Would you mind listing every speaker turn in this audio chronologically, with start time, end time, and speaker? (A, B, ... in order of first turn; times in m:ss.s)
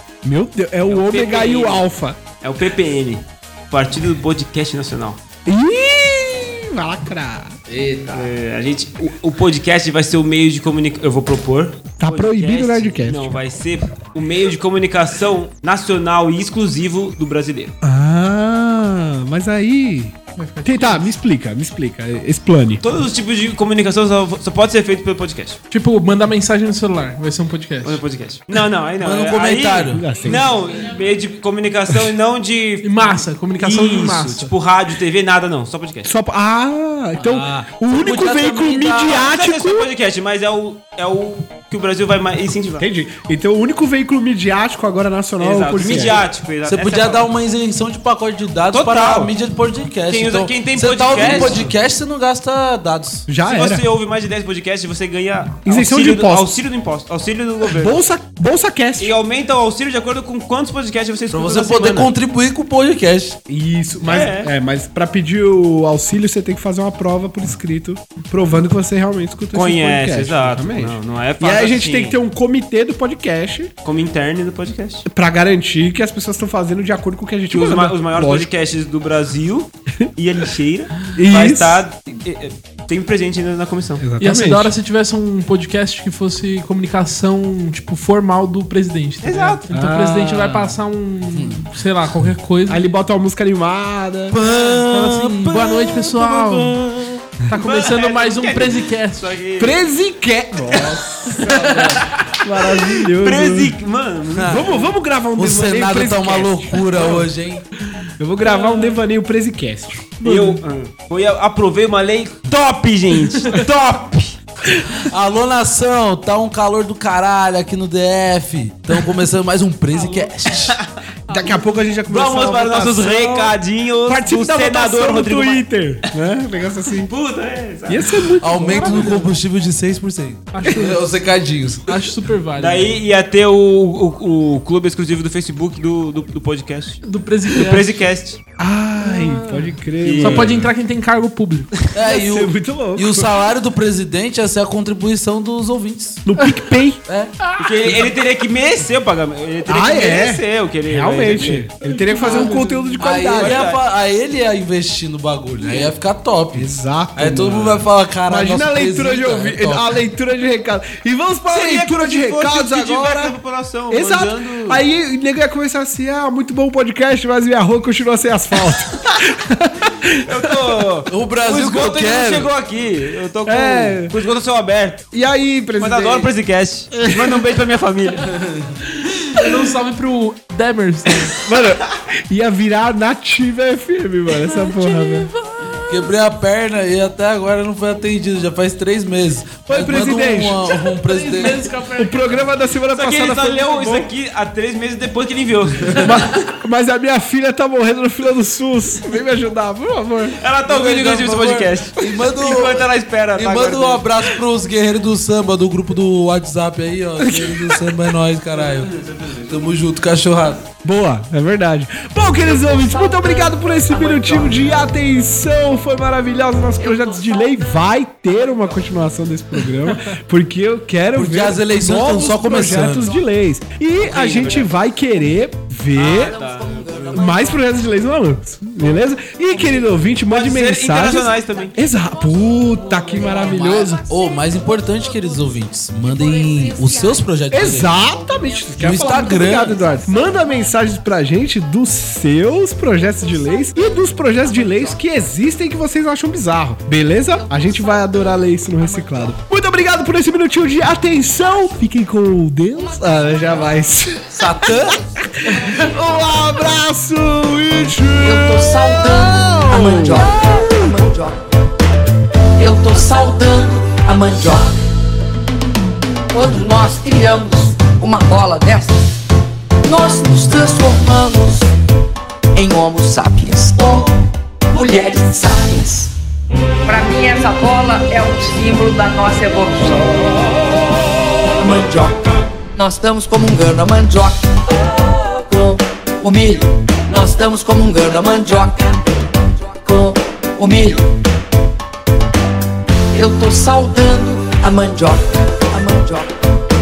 0:00.2-0:02.2 A
0:00.9-0:01.8 B
0:02.4-0:05.2 B
0:05.5-0:07.6 A
0:07.7-0:08.3 C
0:08.1-0:17.7 B
0:12.0-0:13.4 A
0:17.8-0:22.8 A
0:20.4-0:21.1 D
0:22.8-0:25.6 B
0:25.7-0:28.0 D
0:27.8-0:36.1 B
0:29.0-0:30.1 C
0:29.9-0:30.5 A
0:32.8-0:34.5 D
0:36.0-0:39.9 A
0:37.2-0:39.3 C
0:39.1-0:42.8 B
0:42.8-0:46.3 A
0:45.4-0:47.3 B
0:46.6-0:53.3 C
0:48.7-0:49.3 B
0:50.1-0:51.7 B
0:51.1-0:51.7 A
0:53.3-0:53.9 A
0:53.4-0:58.0 B
0:55.6-0:56.5 A
0:57.6-0:59.2 A
0:59.0-1:02.1 B
1:01.3-1:03.4 C
1:03.5-1:13.7 A
1:04.0-1:04.5 B
1:09.5-1:12.2 B
1:13.8-1:15.0 B
1:15.1-1:18.5 A
1:17.5-1:24.0 B
1:21.2-1:21.8 A
1:24.0-1:24.7 A
1:24.2-1:32.9 D
1:29.2-1:29.6 B
1:29.7-1:30.8 A
1:31.3-1:31.7 C
1:32.7-1:34.4 A
1:34.3-1:37.2 C
1:34.4-1:36.8 D
1:37.5-1:39.4 D
1:37.6-1:39.9 B
1:39.6-1:41.7 A
1:41.4-1:42.0 C
1:41.5-1:42.8 D
1:42.4-1:43.7 A
1:43.2-1:44.9 B
1:44.3-1:44.7 C
1:44.4-1:47.2 A
1:45.4-1:47.6 C
1:48.0-1:49.0 D
1:48.2-1:50.2 A
1:50.2-1:50.6 D
1:50.2-1:54.4 B
1:55.0-2:00.8 C
1:59.9-2:00.3 D
2:01.3-2:07.1 A
2:02.1-2:05.6 B
2:07.0-2:08.4 B
2:07.9-2:09.1 A
2:08.4-2:12.0 C
2:08.7-2:09.3 D
2:10.5-2:11.3 D
2:10.6-2:10.9 A
2:11.9-2:13.0 D
2:12.6-2:18.4 B
2:17.0-2:18.1 D
2:18.6-2:20.7 A
2:19.0-2:21.7 D
2:20.0-2:20.6 B
2:21.9-2:26.2 C
2:22.0-2:23.3 A
2:26.2-2:27.0 A
2:27.1-2:27.3 C
2:27.4-2:28.1 D
2:27.6-2:31.7 B
2:29.7-2:33.6 A
2:31.8-2:33.0 D
2:32.2-2:32.5 B
2:33.0-2:39.9 C
2:33.2-2:33.8 B
2:36.5-2:43.4 A
2:41.5-2:44.8 B
2:43.9-2:50.9 A
2:50.2-2:55.1 B
2:51.1-2:52.5 C
2:53.4-2:54.2 A
2:55.1-2:56.3 A
2:55.8-2:58.3 B
2:56.9-2:57.4 A
2:58.3-2:58.8 C
2:59.0-3:01.4 D
3:01.4-3:05.3 A
3:04.3-3:06.1 D
3:05.9-3:11.6 C
3:09.7-3:10.7 A
3:10.7-3:12.4 D
3:12.0-3:14.1 A
3:12.9-3:16.1 B
3:16.0-3:20.4 A
3:20.4-3:24.2 B
3:20.6-3:28.9 C
3:27.2-3:28.0 A
3:28.6-3:29.7 B
3:29.5-3:30.7 C
3:30.8-3:46.3 A
3:32.4-3:34.8 E
3:36.8-3:37.7 E
3:41.2-3:43.1 C
3:44.0-3:44.8 B
3:45.9-3:47.3 B
3:46.0-3:47.7 E
3:47.1-3:54.0 A
3:50.3-3:51.8 B
3:52.8-3:53.9 E
3:53.9-3:58.0 C
3:56.2-3:57.2 E
3:57.5-4:20.5 A
3:57.9-3:58.9 E
3:58.8-3:59.8 C
3:59.7-4:00.2 E
4:04.5-4:04.9 E
4:07.4-4:09.4 E
4:13.4-4:13.7 E
4:14.3-4:15.0 C
4:18.2-4:21.4 E
4:22.6-4:24.8 E
4:26.3-4:29.2 E
4:29.8-4:31.7 E
4:32.5-4:34.2 E
4:34.7-4:36.1 E
4:36.8-4:51.1 E
4:53.1-4:56.3 E